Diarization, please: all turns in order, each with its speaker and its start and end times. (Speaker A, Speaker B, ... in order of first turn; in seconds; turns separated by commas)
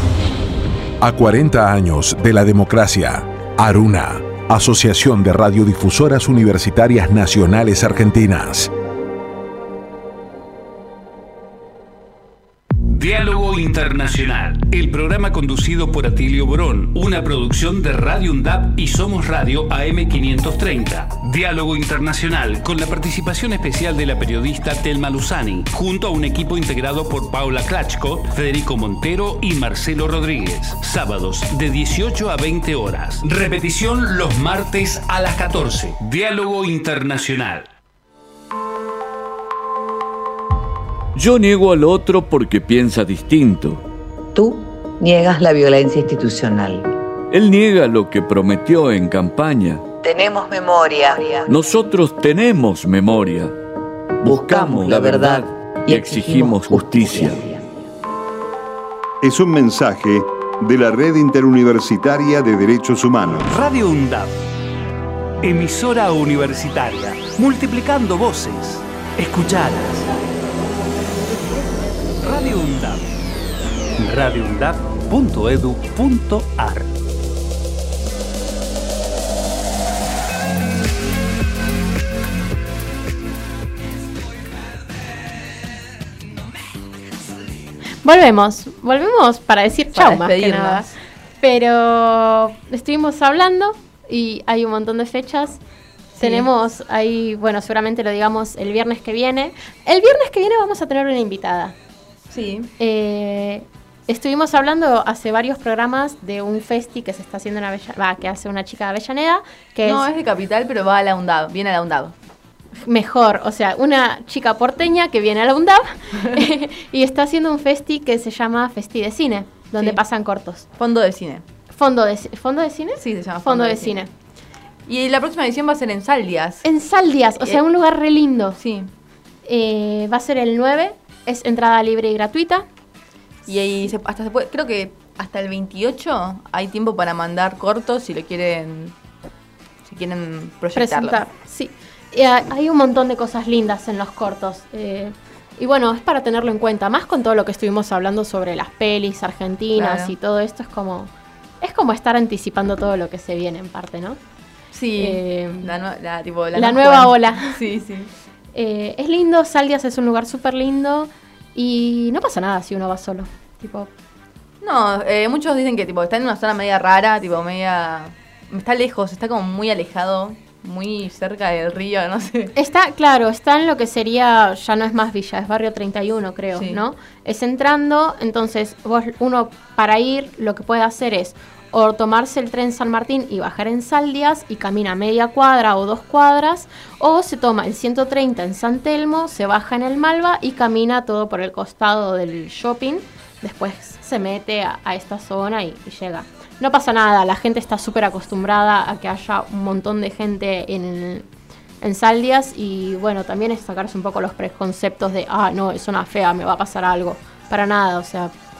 Speaker A: 1.0-8.7, Speaker B: 12.8-37.7, Speaker C: 41.1-43.8, Speaker D: 44.3-46.9, Speaker C: 47.3-49.8, Speaker D: 50.0-51.5, Speaker C: 51.5-53.5, Speaker C: 54.2-57.5, Speaker D: 54.3-57.6, Speaker E: 59.2-63.5, Speaker B: 63.5-64.3, Speaker B: 65.4-70.1, Speaker B: 72.2-73.1, Speaker B: 74.0-76.9, Speaker F: 88.0-90.9, Speaker G: 89.9-90.9, Speaker F: 91.4-95.6, Speaker G: 96.2-96.5, Speaker F: 96.2-101.7, Speaker G: 102.3-102.7, Speaker F: 102.8-110.0, Speaker G: 109.8-112.1, Speaker F: 112.8-120.7, Speaker G: 120.8-121.4, Speaker F: 121.7-124.1, Speaker G: 123.0-124.0, Speaker G: 124.8-126.6, Speaker F: 126.6-128.6, Speaker G: 128.6-128.9, Speaker F: 129.4-132.6, Speaker G: 133.5-138.9, Speaker G: 139.8-141.2, Speaker F: 140.7-151.1, Speaker G: 149.8-150.1, Speaker F: 151.6-154.2, Speaker G: 154.7-158.1, Speaker F: 155.0-155.7, Speaker F: 156.5-157.5, Speaker F: 158.5-163.9, Speaker G: 164.6-172.5, Speaker F: 172.6-201.2, Speaker G: 176.5-176.8, Speaker F: 201.8-208.3